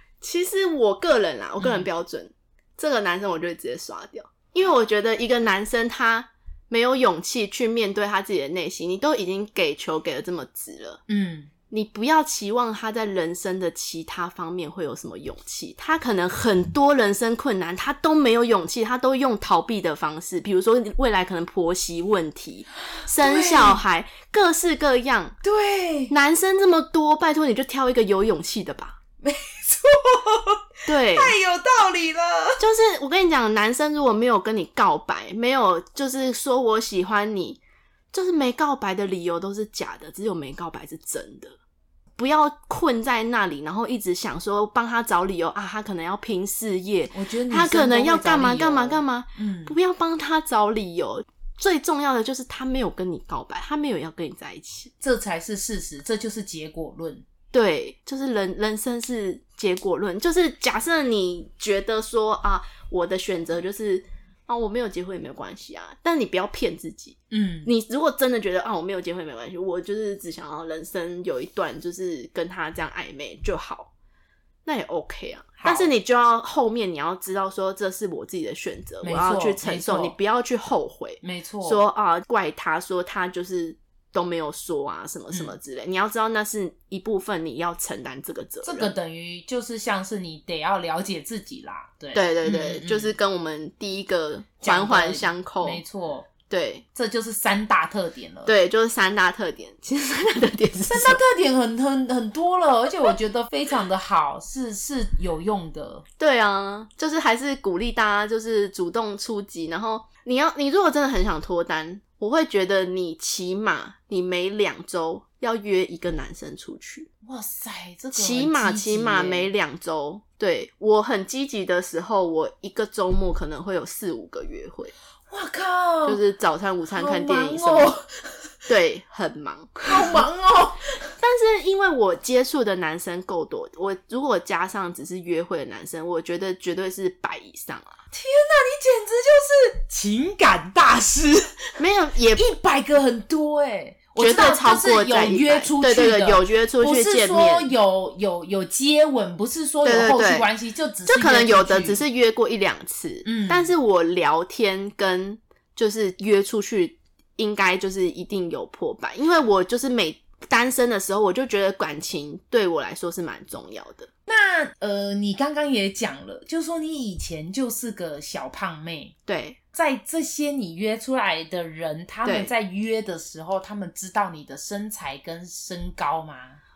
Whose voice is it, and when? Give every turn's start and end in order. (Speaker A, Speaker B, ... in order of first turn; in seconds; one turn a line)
Speaker A: 0.2-11.0
Speaker B: 1.6-1.9
Speaker B: 11.1-11.5
Speaker A: 11.7-25.4
Speaker B: 23.0-23.8
Speaker B: 25.4-26.1
Speaker A: 26.1-29.0
Speaker B: 29.2-32.6
Speaker A: 30.9-31.3
Speaker A: 32.6-37.6
Speaker A: 38.1-41.6
Speaker A: 42.2-54.9
Speaker B: 47.1-49.8
Speaker B: 55.0-57.2
Speaker A: 57.5-73.9
Speaker B: 67.3-67.7
Speaker A: 74.7-88.9
Speaker B: 75.6-75.9
Speaker B: 79.0-80.2
Speaker B: 81.2-81.8
Speaker B: 88.6-93.1
Speaker A: 92.1-95.8
Speaker B: 94.6-96.3
Speaker A: 96.5-96.8
Speaker B: 97.0-98.5
Speaker A: 98.5-101.2
Speaker B: 100.9-106.0
Speaker A: 106.2-117.1
Speaker B: 117.2-119.5
Speaker A: 118.1-124.9
Speaker B: 125.3-126.2
Speaker A: 126.1-128.0
Speaker B: 126.9-128.5
Speaker A: 128.7-130.2
Speaker B: 129.9-130.9
Speaker A: 131.2-138.0
Speaker B: 138.1-141.8
Speaker A: 141.8-142.5
Speaker B: 142.4-152.0
Speaker A: 144.2-147.7
Speaker A: 149.8-150.5
Speaker A: 151.1-164.1
Speaker B: 153.2-153.7
Speaker B: 164.3-169.2
Speaker A: 169.3-169.6
Speaker B: 169.7-176.6
Speaker A: 172.2-172.5